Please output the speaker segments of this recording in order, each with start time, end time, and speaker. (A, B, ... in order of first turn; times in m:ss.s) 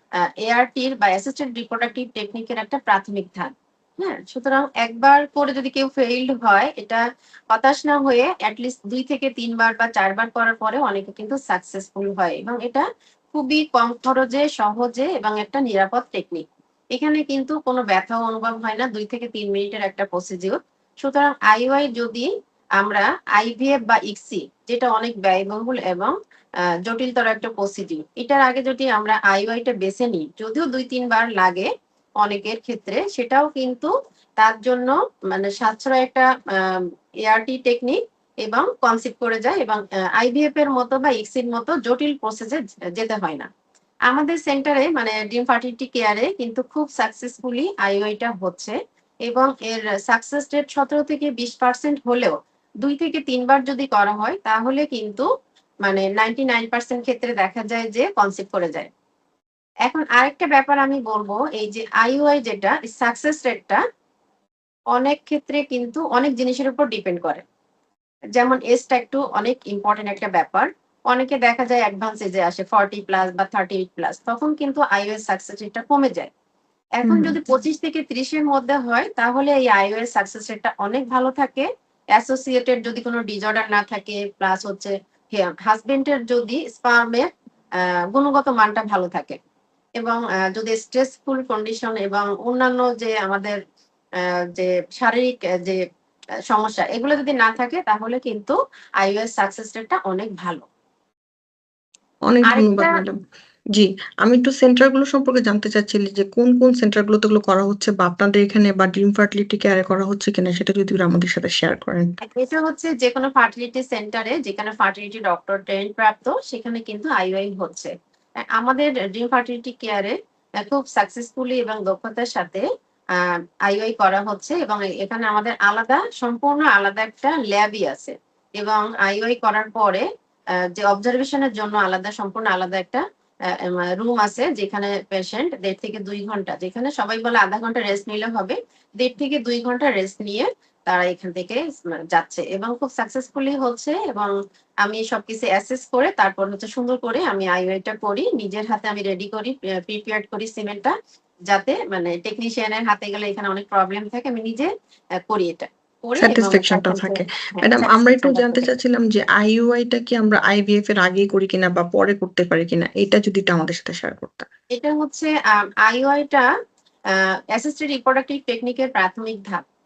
0:00.4-0:26.1 A
0:26.8-0:31.7 A
0:32.2-0:43.5 A
0:44.1-0:55.3 A
0:55.8-0:58.9 A
0:59.9-1:03.8 A
1:04.9-1:07.4 A
1:08.4-1:16.3 A
1:17.0-1:27.3 A
1:17.0-1:17.4 B
1:28.1-1:29.4 A
1:30.0-1:33.6 A
1:34.2-1:35.8 A
1:36.5-1:40.6 A
1:42.3-1:43.2 B
1:42.5-1:42.9 A
1:43.8-1:52.1 B
1:52.2-1:57.9 A
1:58.6-2:24.3 A
2:24.8-2:30.9 A
2:31.5-2:34.7 A
2:35.2-2:38.7 A
2:36.2-2:44.5 B
2:44.7-2:46.5 A
2:47.1-2:49.6 A